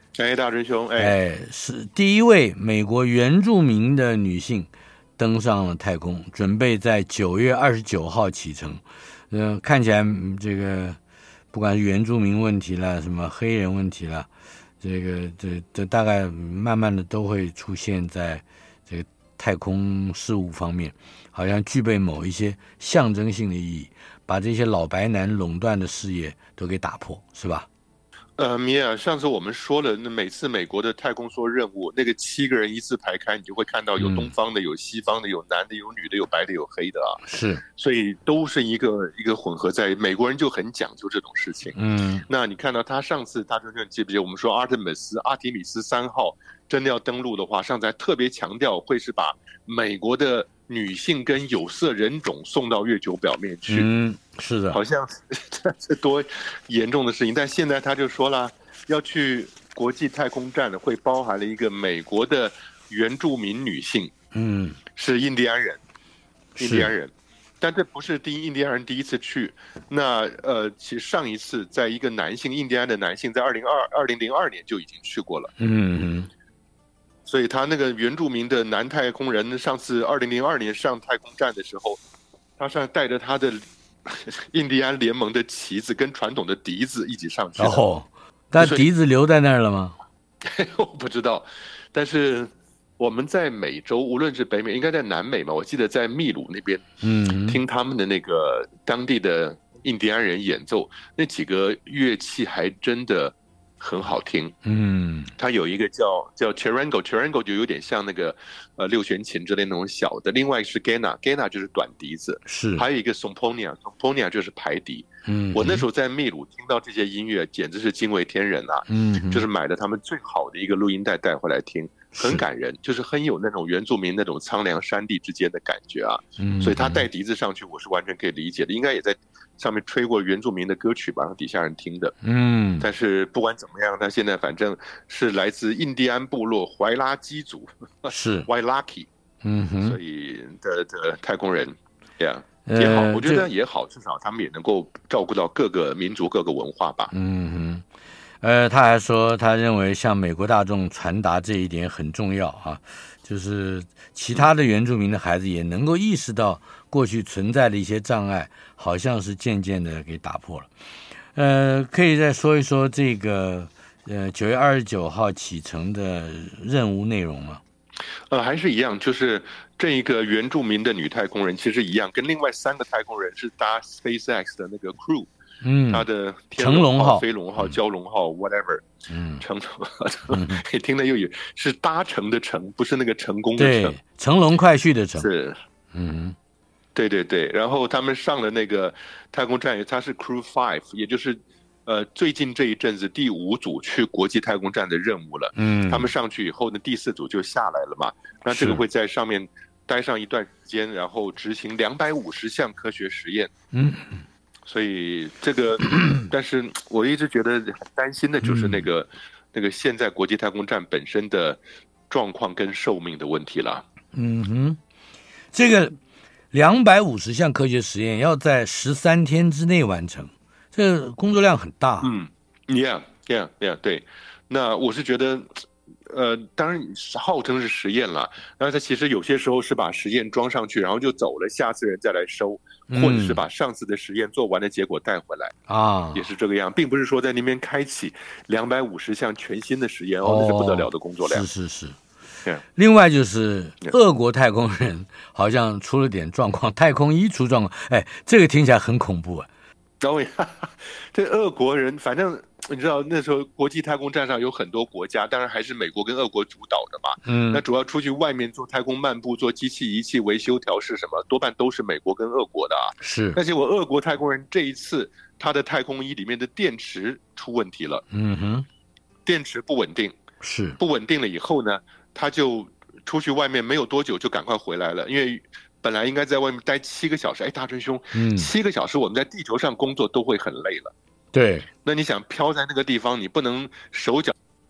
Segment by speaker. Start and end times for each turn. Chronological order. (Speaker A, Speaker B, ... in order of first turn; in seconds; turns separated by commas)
Speaker A: 0.2-1.1, Speaker B: 1.0-11.0, Speaker B: 11.5-14.3, Speaker B: 14.8-27.7, Speaker A: 28.4-53.9, Speaker B: 34.0-34.3, Speaker B: 37.2-37.6, Speaker B: 41.7-42.2, Speaker B: 53.7-54.8, Speaker A: 54.7-64.1, Speaker B: 64.3-64.8, Speaker A: 64.9-65.8, Speaker B: 66.6-66.9, Speaker A: 66.6-75.5, Speaker B: 75.6-76.3, Speaker A: 77.2-82.0, Speaker A: 82.6-87.8, Speaker B: 87.6-89.9, Speaker A: 88.6-88.9, Speaker A: 90.4-96.8, Speaker B: 97.0-97.6, Speaker A: 97.5-104.5, Speaker B: 104.6-105.3, Speaker A: 105.4-132.1, Speaker B: 112.5-112.8, Speaker B: 115.2-115.8, Speaker B: 118.9-119.5, Speaker B: 122.1-122.4, Speaker B: 126.4-127.0, Speaker B: 132.2-132.8, Speaker A: 132.8-139.1, Speaker B: 138.1-138.5, Speaker B: 139.4-140.0, Speaker A: 139.8-147.1, Speaker B: 142.7-143.5, Speaker B: 147.1-147.8, Speaker B: 148.4-160.7, Speaker B: 161.3-167.6, Speaker A: 168.3-175.3, Speaker B: 175.6-177.7, Speaker A: 175.9-178.9, Speaker B: 179.1-179.4, Speaker A: 179.4-184.0, Speaker B: 180.3-180.6, Speaker B: 183.6-185.3, Speaker A: 185.2-185.6, Speaker B: 185.9-186.3, Speaker A: 186.9-203.5, Speaker B: 195.6-196.1, Speaker B: 198.5-198.8, Speaker B: 203.7-204.2, Speaker A: 204.7-213.8, Speaker B: 208.4-208.8, Speaker B: 214.1-214.8, Speaker B: 215.5-215.9, Speaker B: 216.5-222.1, Speaker A: 222.0-235.5, Speaker B: 232.9-233.4, Speaker B: 235.7-236.2, Speaker A: 236.1-241.4, Speaker B: 240.2-242.0, Speaker B: 242.8-249.5, Speaker A: 250.0-268.0, Speaker B: 257.2-257.6, Speaker B: 263.0-263.4, Speaker B: 268.1-268.6, Speaker A: 269.2-270.2, Speaker B: 270.4-270.8, Speaker A: 270.8-280.9, Speaker B: 278.1-278.5, Speaker B: 281.3-281.7, Speaker A: 281.8-284.3